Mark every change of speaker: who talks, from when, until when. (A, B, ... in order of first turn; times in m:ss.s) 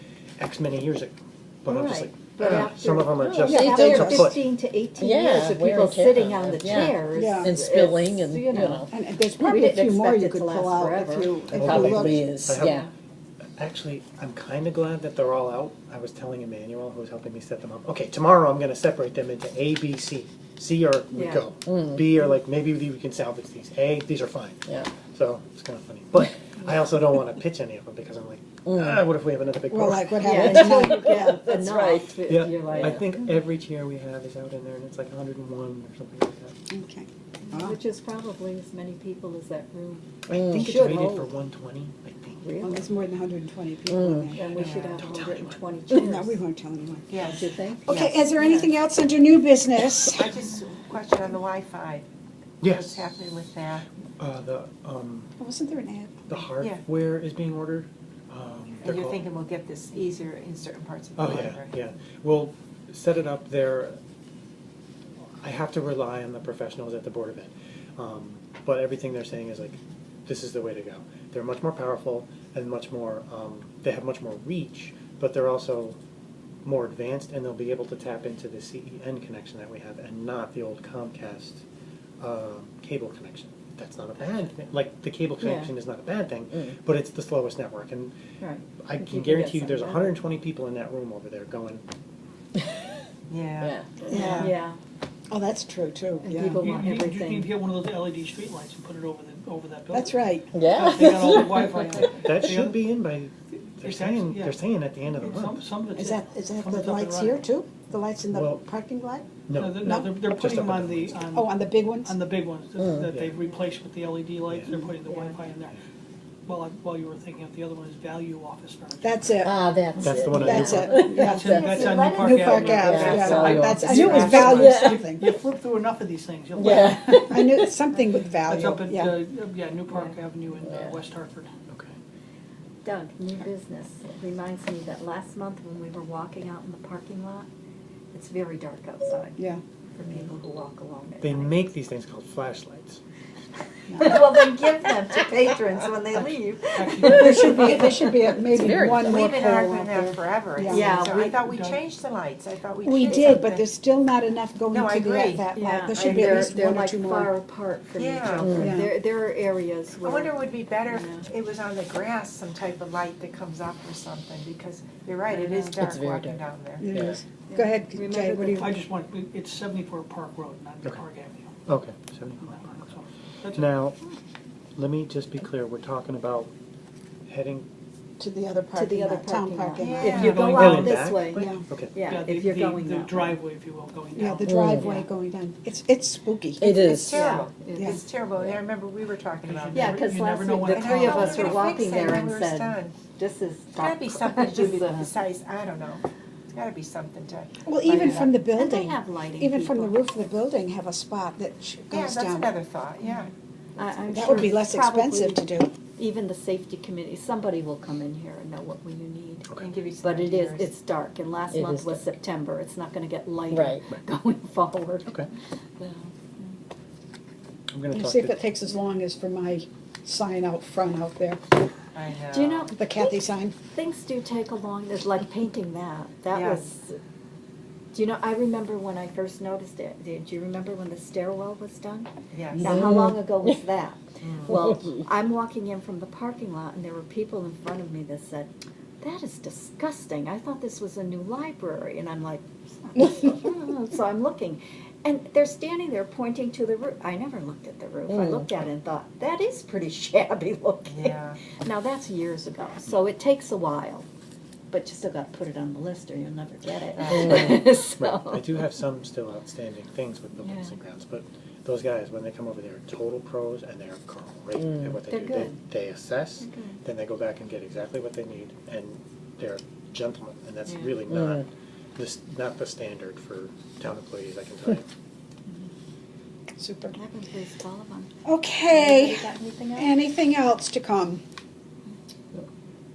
0:00.4-0:04.5 A
0:01.6-0:08.9 B
0:03.2-0:04.2 C
0:03.4-0:04.4 D
0:05.0-0:08.9 C
0:06.3-0:06.8 A
0:07.1-0:07.5 D
0:08.9-0:12.5 D
0:09.4-0:11.5 B
0:11.5-0:12.9 A
0:11.6-0:12.9 C
0:12.6-0:12.9 B
0:13.6-0:30.3 A
0:21.1-0:21.5 B
0:21.6-0:22.1 C
0:24.6-0:25.0 C
0:28.6-0:29.0 C
0:29.7-0:31.4 D
0:30.2-0:33.3 B
0:30.3-0:33.0 C
0:32.3-0:36.5 A
0:36.7-0:37.8 D
0:37.4-0:41.3 B
0:40.3-0:42.4 A
0:40.3-0:40.7 C
0:42.4-0:42.8 B
0:42.6-0:44.7 D
0:43.9-0:44.3 C
0:44.3-0:46.4 B
0:44.5-0:45.0 E
0:44.9-0:45.6 A
0:45.9-0:47.1 D
0:47.1-0:48.2 E
0:47.2-0:48.7 B
0:47.8-0:50.3 D
0:50.1-0:52.0 E
0:52.6-0:53.2 A
0:52.7-0:53.9 E
0:54.2-0:55.3 A
0:55.4-0:56.4 D
0:56.3-0:59.2 A
0:56.6-0:56.8 E
0:58.8-1:01.8 E
1:01.2-1:04.0 A
1:05.4-1:16.0 A
1:16.6-1:21.6 A
1:22.2-1:28.2 A
1:25.4-1:25.7 B
1:26.5-1:26.8 C
1:28.4-1:30.2 B
1:28.8-1:31.8 A
1:33.3-1:34.1 E
1:33.6-1:33.9 C
1:34.1-1:34.5 D
1:34.1-1:34.8 B
1:34.2-1:34.5 F
1:35.3-1:36.7 D
1:36.2-1:37.5 B
1:36.6-1:42.9 F
1:39.9-1:40.5 D
1:40.5-1:42.3 C
1:42.2-1:45.6 A
1:43.8-1:44.6 F
1:45.1-1:47.5 F
1:45.9-1:50.2 D
1:48.3-1:48.6 A
1:49.4-1:51.3 A
1:49.6-1:55.8 F
1:51.3-1:52.2 D
1:52.8-1:53.1 C
1:53.1-1:53.4 A
1:54.5-1:54.8 A
1:55.0-1:55.4 B
1:56.5-1:59.3 F
1:59.0-1:59.6 D
1:59.4-2:01.9 C
2:00.0-2:00.7 A
2:00.0-2:03.5 B
2:00.3-2:05.3 D
2:00.8-2:07.3 F
2:02.7-2:05.1 C
2:02.9-2:04.5 E
2:06.5-2:07.7 C
2:06.7-2:09.2 D
2:08.4-2:11.5 F
2:09.9-2:10.2 B
2:10.6-2:11.0 C
2:11.7-2:12.0 A
2:12.8-2:17.5 B
2:18.1-2:19.4 B
2:19.4-2:19.6 D
2:20.0-2:21.7 B
2:21.2-2:23.0 A
2:23.9-2:24.2 D
2:24.0-2:28.4 B
2:26.7-2:27.9 F
2:27.0-2:31.0 D
2:28.4-2:29.3 C
2:29.0-2:33.7 E
2:30.6-2:31.3 B
2:31.1-2:31.8 F
2:32.8-2:37.3 D
2:33.1-2:33.4 B
2:34.7-2:36.5 E
2:35.5-2:40.3 B
2:38.0-2:38.7 E
2:38.4-2:38.7 C
2:38.6-2:38.9 D
2:40.0-2:46.8 E
2:40.8-2:41.3 B
2:45.3-2:45.8 B
2:45.8-2:46.4 C
2:46.8-2:48.7 D
2:46.9-2:47.2 C
2:47.5-2:48.8 B
2:48.6-2:51.5 F
2:51.7-2:52.9 A
2:52.4-2:53.7 F
2:53.5-2:54.0 A
2:54.8-2:56.5 A
2:57.3-2:57.6 A
2:58.2-3:00.2 D
2:58.7-3:03.4 B
2:59.8-3:00.5 E
3:00.1-3:04.6 F
3:00.5-3:01.9 A
3:01.3-3:01.6 D
3:04.1-3:06.7 D
3:04.4-3:04.9 C
3:04.6-3:05.1 B
3:06.6-3:07.2 C
3:06.7-3:10.0 E
3:07.1-3:08.0 B
3:07.7-3:08.0 D
3:09.4-3:11.7 F
3:09.7-3:15.2 B
3:10.6-3:13.0 E
3:13.7-3:18.3 E
3:17.6-3:22.5 D
3:17.8-3:20.0 B
3:21.9-3:24.0 E
3:23.8-3:29.5 B
3:24.1-3:25.7 D
3:29.6-3:30.7 E
3:30.0-3:35.1 B
3:31.5-3:32.0 C
3:33.5-3:33.8 C
3:35.8-3:36.6 B
3:37.7-3:38.4 A
3:37.9-3:41.4 D
3:41.9-3:42.7 E
3:42.3-3:42.8 B
3:42.7-3:43.5 D
3:43.7-3:47.0 B
3:46.3-3:46.7 E
3:47.9-3:58.5 B
3:52.3-3:52.8 E
3:52.7-3:53.2 C
3:54.2-3:54.6 E
3:59.0-4:14.1 B
4:10.8-4:11.4 E
4:14.7-4:18.7 B
4:17.0-4:17.4 E
4:17.2-4:34.8 A
4:20.4-4:20.7 B
4:24.6-4:25.0 C
4:25.1-4:25.6 B
4:26.4-4:26.8 B
4:30.6-4:30.9 B
4:31.1-4:31.4 C
4:36.6-4:37.0 D
4:36.9-4:38.1 B
4:38.2-4:41.2 D
4:38.7-4:39.9 B